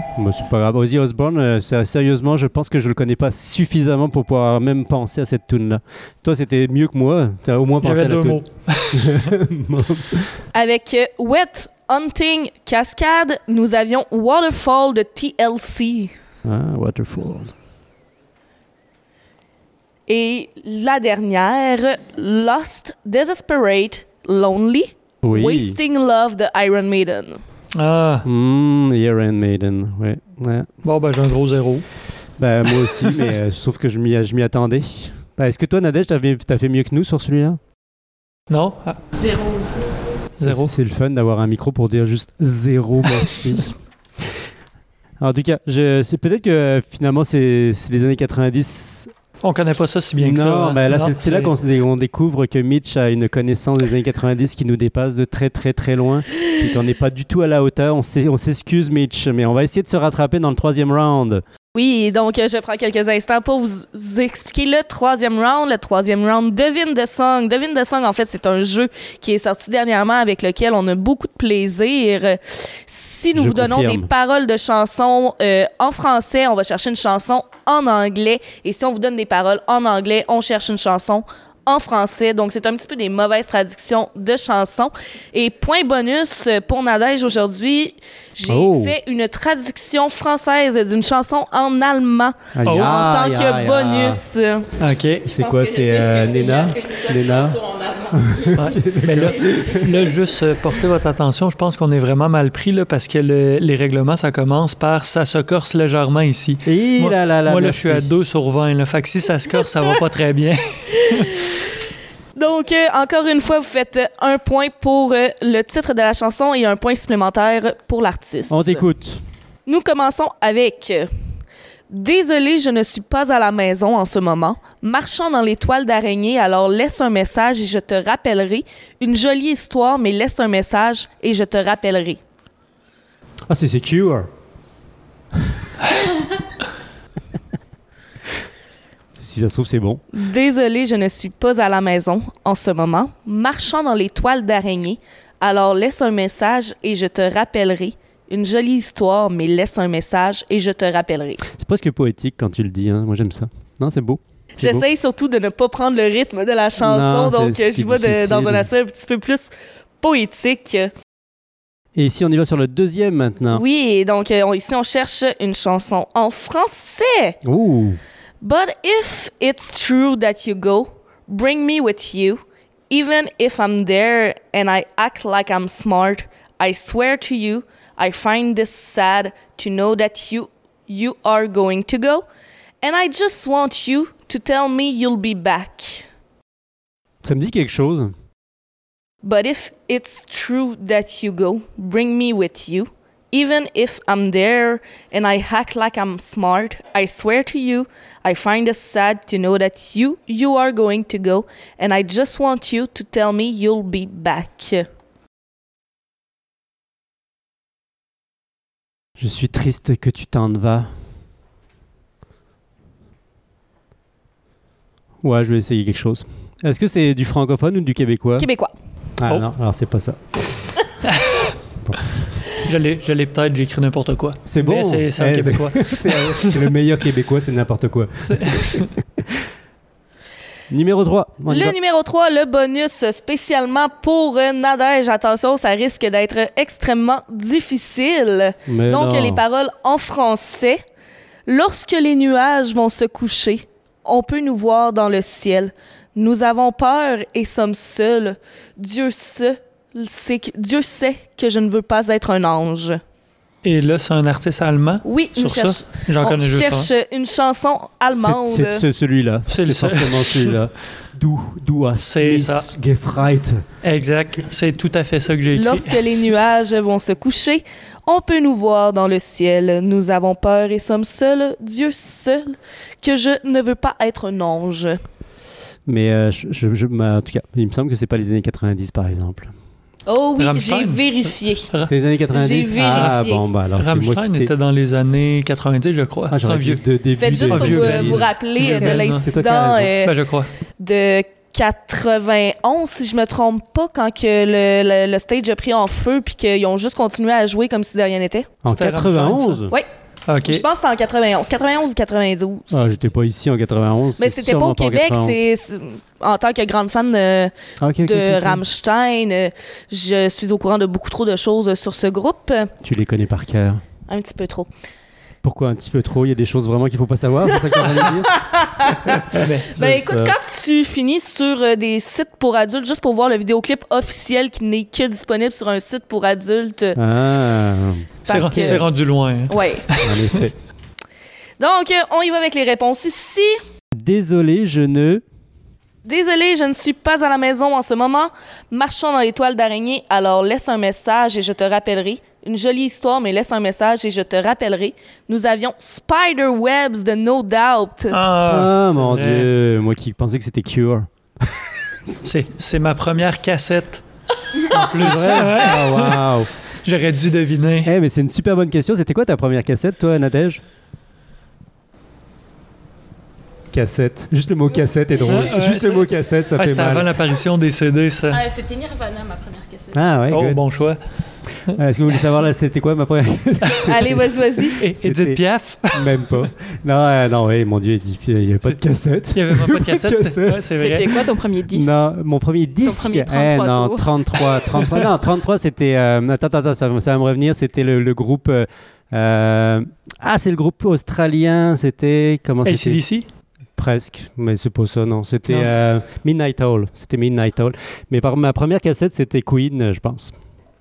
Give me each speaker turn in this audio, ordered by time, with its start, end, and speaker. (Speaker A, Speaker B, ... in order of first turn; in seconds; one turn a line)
Speaker A: 0.1-10.3
Speaker B: 7.8-9.3
Speaker C: 10.5-16.1
Speaker A: 16.4-17.5
Speaker C: 20.1-27.4
Speaker A: 25.2-25.8
Speaker B: 27.8-28.3
Speaker A: 28.2-30.7
Speaker B: 30.8-31.9
Speaker A: 32.4-37.6
Speaker B: 33.0-33.3
Speaker B: 38.5-39.0
Speaker D: 39.1-39.8
Speaker B: 40.4-40.7
Speaker A: 40.4-44.4
Speaker A: 45.2-49.1
Speaker B: 49.4-51.5
Speaker A: 50.2-61.4
Speaker C: 61.7-94.7
Speaker A: 73.3-74.1
Speaker A: 88.5-89.0
Speaker A: 92.5-94.2
Speaker B: 92.6-93.0
Speaker B: 94.8-95.3
Speaker A: 95.2-100.0
Speaker D: 95.3-98.1
Speaker B: 98.5-111.5
Speaker A: 106.6-108.1
Speaker C: 111.0-111.4
Speaker C: 112.3-118.8
Speaker A: 118.5-119.2
Speaker C: 119.7-121.1
Speaker C: 121.9-132.2
Speaker A: 133.5-134.3
Speaker A: 139.2-140.0
Speaker C: 140.1-151.4
Speaker A: 151.4-154.8
Speaker C: 154.6-160.9
Speaker A: 156.8-158.7
Speaker A: 161.9-163.6
Speaker C: 163.5-167.4
Speaker A: 167.4-168.0
Speaker C: 168.4-182.2
Speaker C: 182.8-186.1
Speaker A: 187.2-188.1
Speaker C: 189.2-204.9
Speaker A: 209.2-210.9
Speaker A: 215.2-218.5
Speaker C: 218.4-218.7
Speaker A: 219.2-220.5
Speaker B: 221.0-221.5
Speaker A: 221.8-222.2
Speaker B: 222.6-226.7
Speaker A: 224.4-229.4
Speaker B: 228.2-228.9
Speaker A: 230.7-231.8
Speaker C: 231.5-240.8
Speaker A: 238.7-239.4
Speaker C: 241.5-253.0
Speaker B: 253.6-256.9
Speaker C: 255.0-258.8
Speaker A: 258.1-263.6
Speaker B: 259.5-260.6
Speaker B: 262.0-262.7
Speaker B: 263.8-266.0
Speaker C: 265.5-275.0
Speaker A: 275.9-279.5
Speaker C: 280.1-281.7
Speaker B: 280.4-281.9
Speaker A: 281.8-284.5
Speaker C: 282.3-283.4
Speaker B: 282.9-286.8
Speaker A: 286.3-289.9
Speaker C: 287.2-290.1
Speaker B: 287.4-289.3
Speaker B: 290.0-290.5
Speaker C: 290.8-298.5
Speaker A: 298.6-299.7
Speaker B: 298.7-299.6
Speaker B: 300.3-300.6
Speaker C: 300.4-302.8
Speaker A: 302.7-305.4
Speaker C: 304.2-312.7
Speaker A: 307.8-308.6
Speaker A: 312.8-313.8
Speaker C: 314.1-314.7
Speaker A: 315.4-318.4
Speaker C: 317.8-327.0
Speaker A: 319.1-320.4
Speaker B: 319.4-319.8
Speaker A: 326.9-328.8
Speaker C: 328.2-328.8
Speaker B: 328.2-330.4
Speaker C: 329.5-329.9
Speaker A: 330.0-330.5
Speaker C: 331.6-333.6
Speaker A: 333.9-335.2
Speaker C: 336.0-348.2
Speaker B: 348.1-349.5
Speaker A: 348.4-351.6
Speaker B: 352.2-354.0
Speaker B: 354.7-356.3
Speaker A: 354.7-356.5
Speaker B: 356.8-357.9
Speaker A: 357.8-360.6
Speaker A: 363.7-367.1
Speaker D: 364.7-365.5
Speaker B: 365.3-368.4
Speaker D: 368.3-370.0
Speaker A: 369.9-370.6
Speaker B: 370.3-371.8
Speaker A: 371.7-380.7
Speaker C: 373.9-374.8
Speaker B: 374.8-376.3
Speaker B: 379.3-381.2
Speaker D: 380.8-382.0
Speaker A: 381.7-393.0
Speaker D: 382.8-384.6
Speaker B: 392.6-393.2
Speaker A: 393.8-400.3
Speaker B: 395.5-395.7